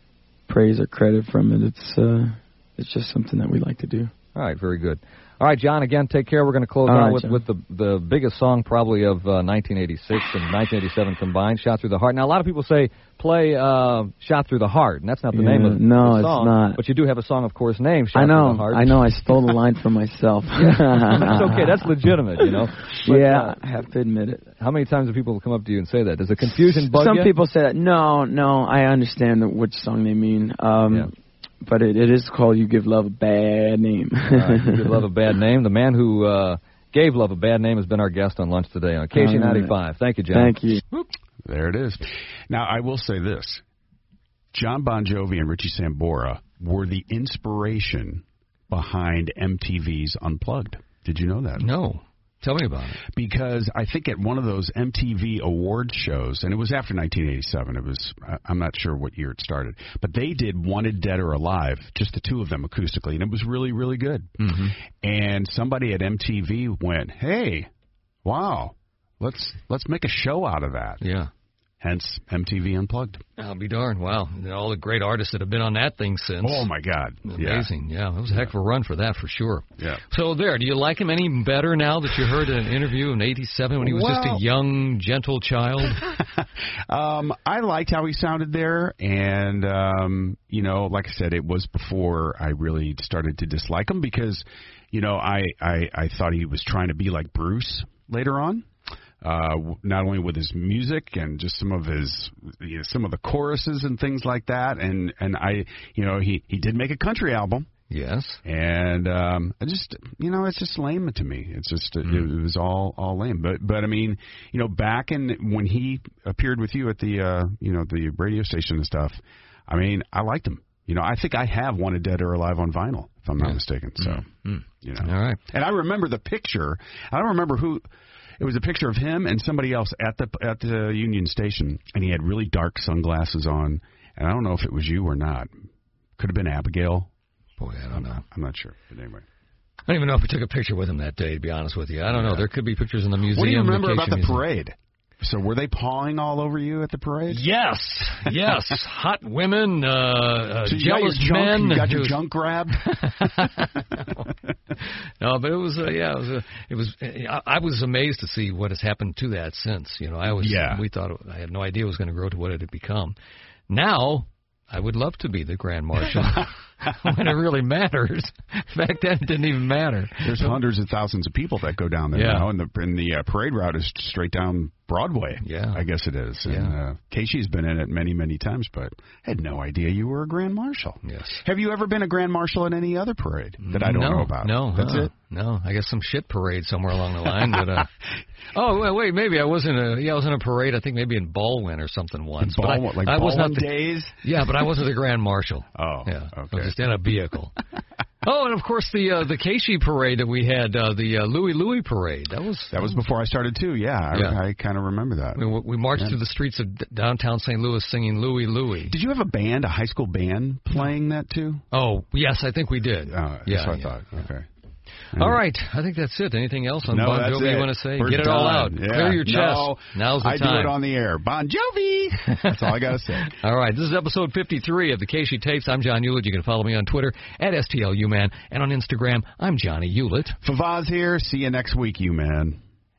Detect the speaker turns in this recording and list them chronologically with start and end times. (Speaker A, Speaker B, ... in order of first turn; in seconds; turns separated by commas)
Speaker A: 0.5-4.1, Speaker B: 4.3-19.5, Speaker A: 6.8-7.4, Speaker A: 15.3-16.8, Speaker A: 18.1-21.9, Speaker B: 20.7-23.6, Speaker A: 23.0-24.4, Speaker B: 24.6-27.3, Speaker A: 26.8-31.1, Speaker A: 31.6-35.0, Speaker B: 34.3-40.8, Speaker A: 39.1-39.8, Speaker A: 40.3-40.8, Speaker C: 41.4-43.6, Speaker C: 44.5-51.7, Speaker D: 51.6-53.0, Speaker C: 53.1-67.7, Speaker D: 64.4-64.7, Speaker C: 68.2-71.0, Speaker D: 71.0-71.3, Speaker C: 71.8-73.2, Speaker D: 73.4-76.7, Speaker C: 76.4-77.7, Speaker D: 77.2-86.0, Speaker C: 83.8-84.4, Speaker C: 85.9-98.7, Speaker C: 99.2-107.7, Speaker D: 107.9-108.4, Speaker C: 108.4-124.3, Speaker D: 123.4-125.4, Speaker C: 124.8-127.8, Speaker C: 128.4-135.5, Speaker C: 136.2-137.1, Speaker D: 137.6-138.2, Speaker C: 137.9-139.2, Speaker D: 139.9-144.4, Speaker C: 142.1-142.4, Speaker C: 143.3-147.4, Speaker D: 147.3-154.2, Speaker C: 148.3-148.5, Speaker C: 150.7-153.5, Speaker D: 154.8-163.1, Speaker C: 160.3-160.8, Speaker D: 163.7-170.6, Speaker C: 170.2-185.1, Speaker D: 172.1-172.5, Speaker D: 175.4-175.8, Speaker D: 176.4-176.8, Speaker D: 181.0-181.4, Speaker D: 183.6-187.9, Speaker D: 188.5-193.7, Speaker C: 192.4-194.2, Speaker D: 194.2-197.6, Speaker C: 195.8-196.7, Speaker D: 198.2-202.9, Speaker C: 202.7-205.4, Speaker D: 204.1-204.4, Speaker D: 205.3-208.9, Speaker C: 208.9-211.6, Speaker D: 211.7-214.2, Speaker C: 213.1-214.4, Speaker C: 215.1-215.4, Speaker D: 215.1-220.8, Speaker C: 216.9-223.4, Speaker D: 223.2-230.4, Speaker C: 230.4-232.6